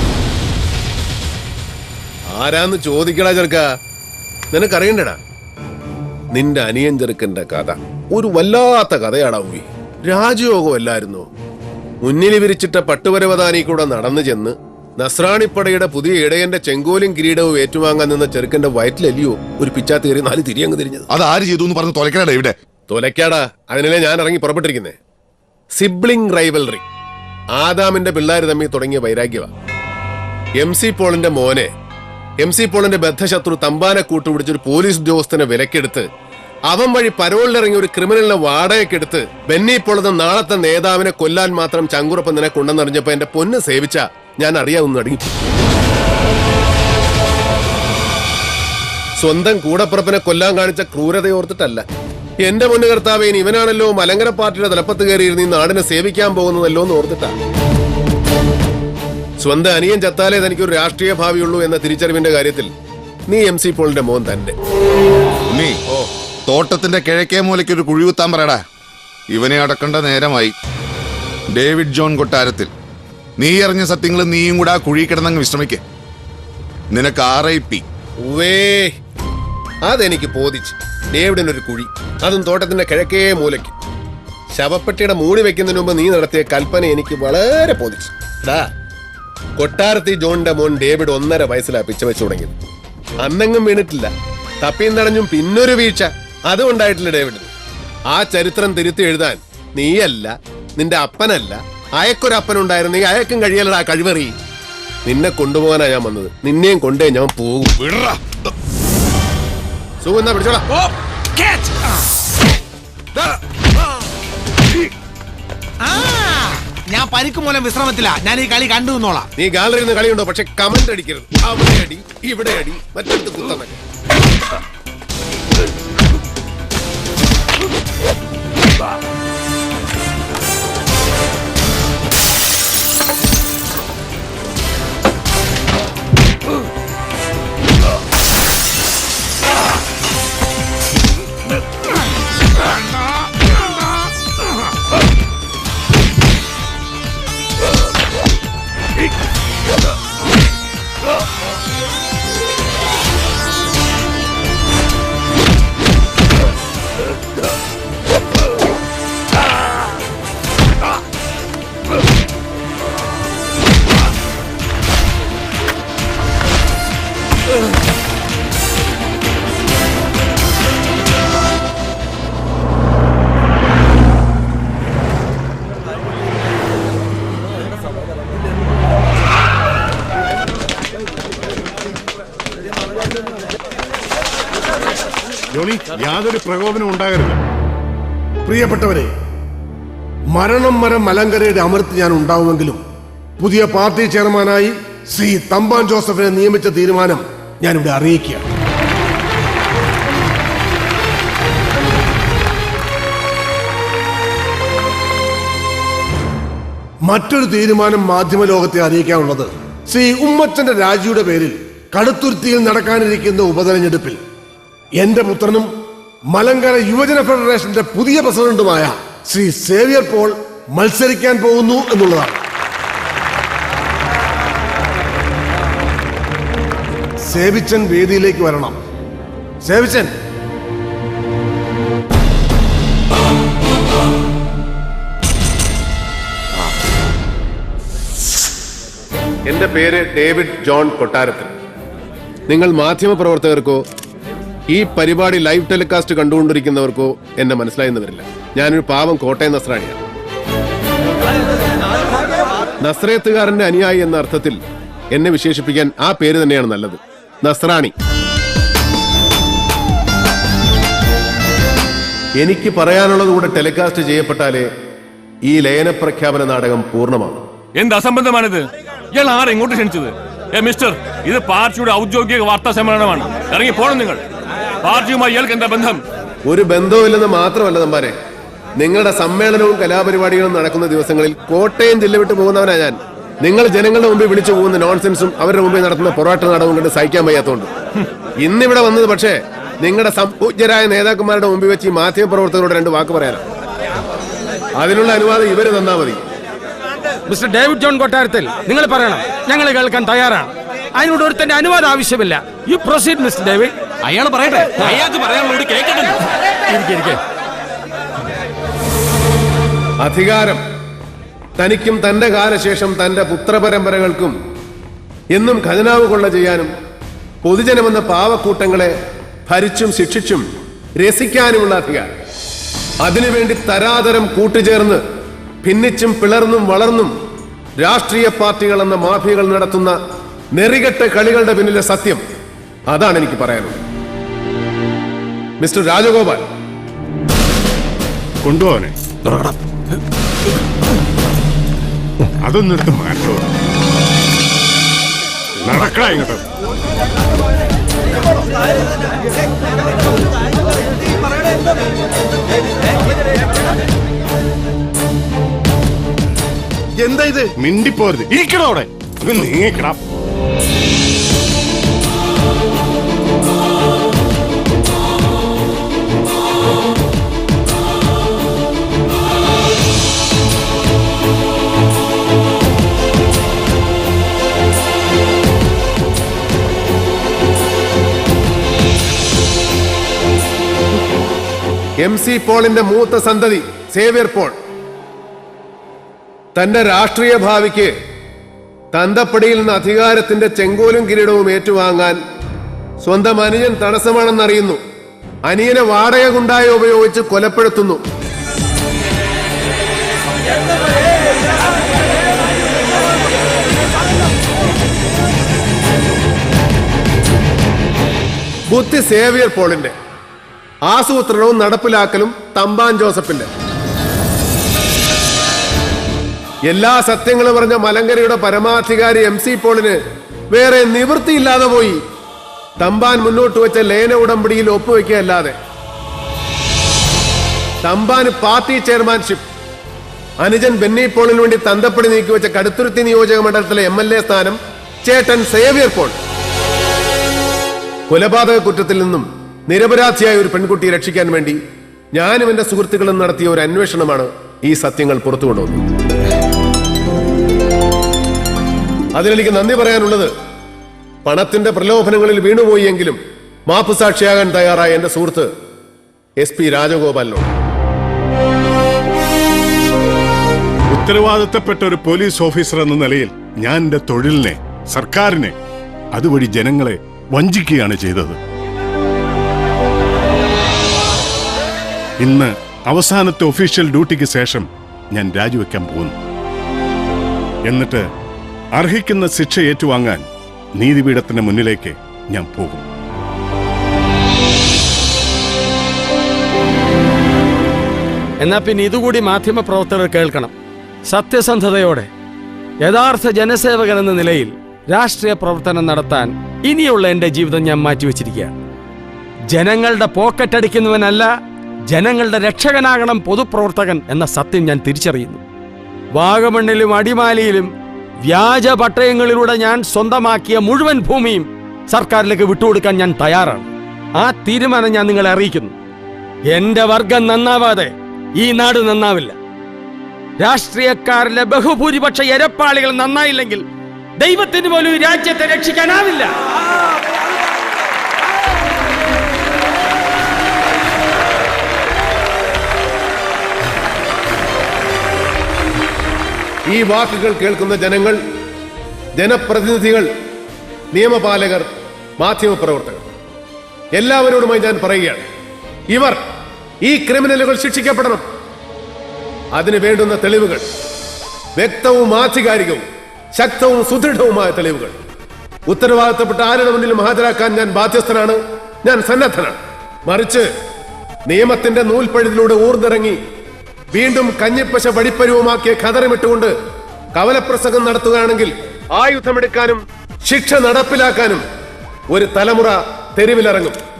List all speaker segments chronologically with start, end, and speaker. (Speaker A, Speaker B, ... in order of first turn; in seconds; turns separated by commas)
Speaker A: 2.3-3.6, Speaker A: 4.5-5.2, Speaker A: 6.3-11.3, Speaker A: 12.0-21.1, Speaker B: 21.1-22.6, Speaker A: 22.9-25.0, Speaker A: 25.7-26.8, Speaker A: 27.6-29.5, Speaker A: 30.6-31.7, Speaker A: 32.4-36.0, Speaker A: 36.7-45.3, Speaker A: 49.2-51.8, Speaker A: 52.4-57.3, Speaker A: 59.4-62.7, Speaker A: 63.3-64.5, Speaker B: 65.5-65.8, Speaker B: 66.5-68.6, Speaker B: 69.3-70.5, Speaker B: 71.5-72.7, Speaker B: 73.4-75.8, Speaker B: 76.9-77.8, Speaker A: 78.2-78.9, Speaker A: 79.8-83.7, Speaker A: 84.5-88.7, Speaker A: 89.6-92.5, Speaker A: 93.2-94.1, Speaker A: 94.6-97.5, Speaker A: 98.1-104.3, Speaker A: 105.0-107.8, Speaker B: 107.8-108.1, Speaker A: 110.0-110.6, Speaker C: 115.8-119.3, Speaker A: 119.3-123.8, Speaker D: 185.5-187.4, Speaker E: 188.4-189.1, Speaker E: 190.3-192.8, Speaker E: 193.4-198.4, Speaker E: 207.1-214.2, Speaker E: 215.0-215.7, Speaker E: 216.3-222.4, Speaker E: 227.2-228.8, Speaker E: 229.6-230.1, Speaker A: 239.5-241.5, Speaker A: 242.5-243.8, Speaker A: 244.7-250.0, Speaker A: 252.8-254.6, Speaker A: 255.1-257.9, Speaker A: 262.4-264.7, Speaker A: 265.4-267.4, Speaker F: 267.8-274.2, Speaker F: 274.8-276.0, Speaker A: 276.4-278.1, Speaker A: 278.8-287.7, Speaker A: 288.4-293.4, Speaker A: 294.8-296.2, Speaker G: 297.3-303.7, Speaker G: 304.8-305.1, Speaker C: 305.6-305.9, Speaker G: 306.7-307.2, Speaker A: 310.0-310.6, Speaker A: 311.6-314.3, Speaker A: 315.3-316.7, Speaker A: 317.4-318.9, Speaker A: 319.5-320.4, Speaker A: 321.0-322.1, Speaker A: 323.0-325.0, Speaker A: 325.6-327.1, Speaker A: 327.8-329.9, Speaker A: 330.5-332.2, Speaker A: 332.9-333.8, Speaker A: 335.6-336.5, Speaker D: 338.4-338.9, Speaker D: 342.4-343.5, Speaker D: 345.6-346.4, Speaker D: 357.0-360.0, Speaker A: 382.0-384.5, Speaker A: 386.5-387.9, Speaker A: 388.9-392.2, Speaker A: 393.0-394.8, Speaker A: 395.5-398.0, Speaker A: 408.7-409.9, Speaker A: 410.9-413.5, Speaker A: 416.7-420.0, Speaker A: 420.5-422.0, Speaker A: 422.8-425.5, Speaker A: 427.8-429.4, Speaker A: 430.4-436.2, Speaker A: 438.1-441.6, Speaker A: 442.1-445.9, Speaker A: 449.1-450.3, Speaker A: 451.2-455.5, Speaker A: 456.4-457.5, Speaker D: 460.9-465.5, Speaker D: 466.1-468.4, Speaker D: 472.2-476.2, Speaker D: 477.6-478.1, Speaker D: 478.7-482.8, Speaker G: 488.4-490.5, Speaker G: 491.1-492.1, Speaker G: 492.8-498.5, Speaker G: 499.5-501.3, Speaker G: 501.9-505.4, Speaker G: 506.1-507.7, Speaker G: 508.2-515.7, Speaker G: 516.5-519.3, Speaker G: 520.4-523.6, Speaker G: 524.2-526.3, Speaker A: 536.7-538.2, Speaker A: 539.2-540.1, Speaker A: 540.9-543.0, Speaker A: 543.9-545.2, Speaker A: 545.9-546.2, Speaker A: 546.8-548.2, Speaker A: 549.5-550.6, Speaker A: 551.5-552.8, Speaker A: 553.4-555.0, Speaker A: 555.7-560.5, Speaker A: 561.3-563.2, Speaker A: 563.9-566.5, Speaker A: 567.1-571.4, Speaker A: 572.1-573.8